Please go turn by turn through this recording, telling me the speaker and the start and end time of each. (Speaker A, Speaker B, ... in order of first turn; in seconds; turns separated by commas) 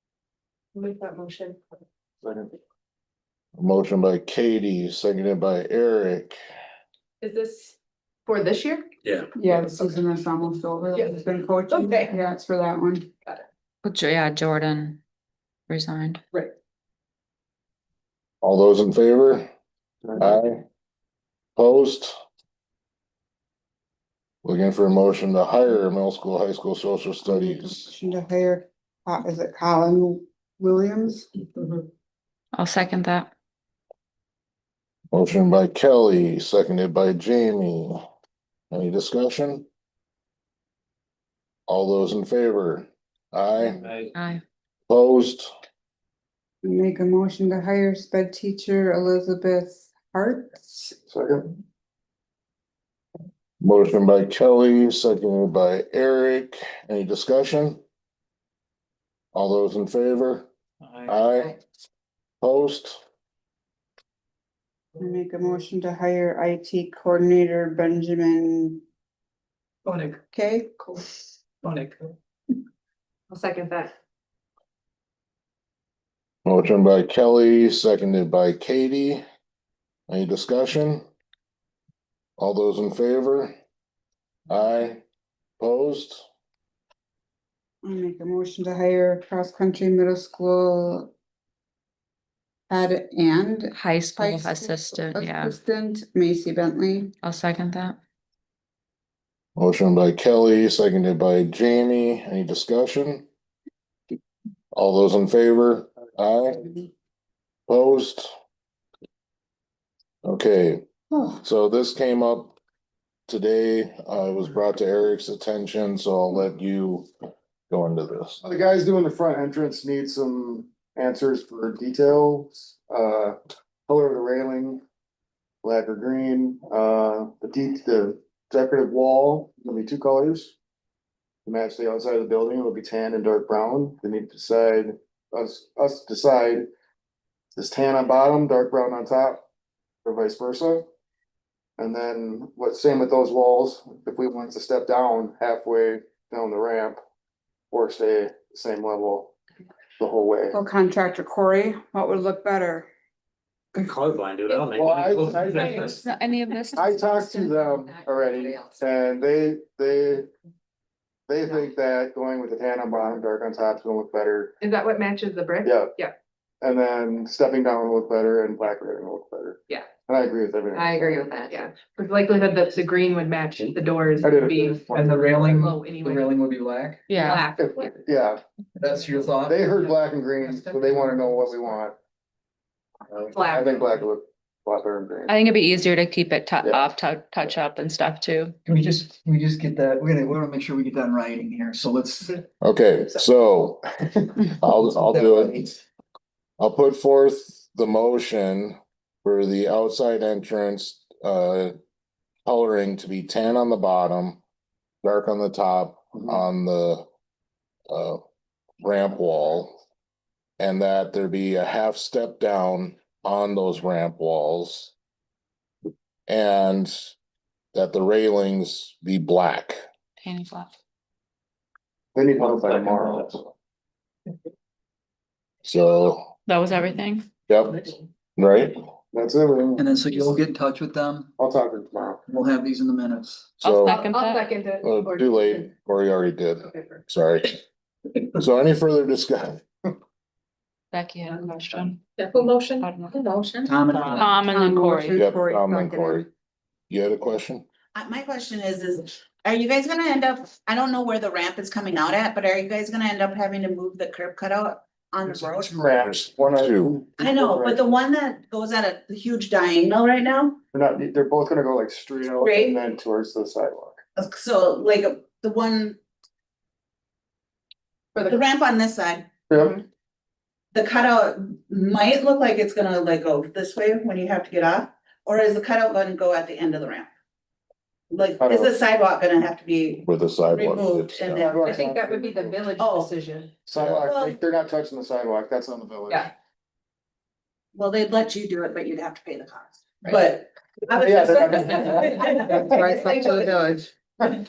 Speaker A: 0.7-1.6, Speaker B: 2.2-2.5, Speaker C: 3.6-6.3, Speaker A: 7.2-8.9, Speaker D: 9.3-13.1, Speaker A: 9.6-9.9, Speaker A: 11.0-12.2, Speaker E: 13.8-15.0, Speaker E: 15.7-16.2, Speaker C: 18.4-19.5, Speaker C: 20.2-20.6, Speaker C: 21.6-22.1, Speaker C: 24.4-27.9, Speaker D: 27.6-31.2, Speaker E: 32.5-33.3, Speaker C: 35.1-38.0, Speaker C: 38.7-39.6, Speaker C: 41.7-43.9, Speaker E: 44.1-44.4, Speaker C: 44.9-45.5, Speaker D: 46.6-51.0, Speaker B: 51.1-51.5, Speaker C: 53.6-57.8, Speaker C: 59.3-60.5, Speaker C: 61.1-61.5, Speaker C: 62.4-63.0, Speaker D: 65.0-68.8, Speaker A: 69.9-70.1, Speaker D: 70.3-70.7, Speaker A: 71.6-71.9, Speaker A: 73.3-73.9, Speaker C: 76.5-79.2, Speaker C: 80.1-81.1, Speaker C: 82.4-83.5, Speaker C: 84.5-85.0, Speaker C: 85.6-86.2, Speaker D: 87.8-91.1, Speaker D: 92.7-97.1, Speaker E: 93.7-95.6, Speaker E: 97.2-98.0, Speaker C: 99.6-103.3, Speaker C: 104.7-106.7, Speaker C: 107.7-108.3, Speaker C: 110.2-112.6, Speaker C: 113.3-117.1, Speaker C: 117.7-118.4, Speaker B: 118.4-123.4, Speaker B: 123.9-124.8, Speaker B: 125.6-130.5, Speaker B: 131.4-136.7, Speaker B: 137.5-139.4, Speaker B: 140.0-140.9, Speaker B: 141.8-147.0, Speaker B: 147.7-149.3, Speaker B: 150.0-150.6, Speaker D: 150.5-152.9, Speaker F: 153.8-155.8, Speaker A: 154.4-155.7, Speaker B: 154.7-156.0, Speaker E: 155.5-157.5, Speaker B: 156.7-160.3, Speaker A: 157.4-158.8, Speaker B: 161.3-164.5, Speaker A: 164.6-166.1, Speaker B: 165.6-165.9, Speaker B: 166.6-171.0, Speaker A: 170.7-176.3, Speaker B: 174.2-175.3, Speaker G: 174.9-176.9, Speaker E: 177.1-177.4, Speaker A: 177.2-177.9, Speaker B: 177.5-178.4, Speaker G: 178.8-179.6, Speaker B: 179.4-181.9, Speaker A: 180.4-181.2, Speaker B: 183.1-185.4, Speaker A: 183.3-184.0, Speaker E: 185.3-188.6, Speaker G: 188.7-192.3, Speaker C: 192.6-195.6, Speaker C: 196.6-201.8, Speaker C: 202.4-204.4, Speaker C: 205.0-207.1, Speaker C: 207.9-208.2, Speaker C: 208.8-209.8, Speaker C: 210.6-214.9, Speaker C: 216.3-217.1, Speaker C: 217.7-219.8, Speaker E: 220.2-220.7, Speaker B: 222.1-223.4, Speaker C: 225.6-226.3, Speaker E: 226.5-227.3, Speaker C: 227.5-228.8, Speaker B: 229.1-230.3, Speaker G: 229.8-231.2, Speaker B: 231.4-232.2, Speaker G: 232.3-233.3, Speaker C: 233.6-233.9, Speaker E: 233.6-234.6, Speaker A: 233.8-235.7, Speaker C: 234.8-237.6, Speaker A: 236.6-237.0, Speaker C: 238.3-239.6, Speaker E: 240.9-242.0, Speaker A: 242.1-243.7, Speaker E: 242.8-245.2, Speaker G: 243.7-244.2, Speaker D: 244.5-246.2, Speaker C: 245.1-246.3, Speaker C: 246.9-247.6, Speaker H: 247.9-255.8, Speaker B: 255.6-257.9, Speaker C: 255.9-257.0, Speaker H: 257.2-260.6, Speaker B: 260.7-264.0, Speaker H: 262.4-262.8, Speaker H: 264.1-266.0, Speaker H: 268.2-269.3, Speaker B: 269.5-269.8, Speaker H: 270.7-277.1, Speaker H: 278.1-281.7, Speaker B: 278.4-278.7, Speaker C: 280.0-281.5, Speaker B: 281.4-282.6, Speaker A: 281.6-283.5, Speaker H: 282.8-283.1, Speaker B: 283.6-286.3, Speaker C: 283.8-284.1, Speaker H: 284.1-284.4, Speaker H: 287.8-293.5, Speaker B: 291.0-293.4, Speaker D: 292.7-293.7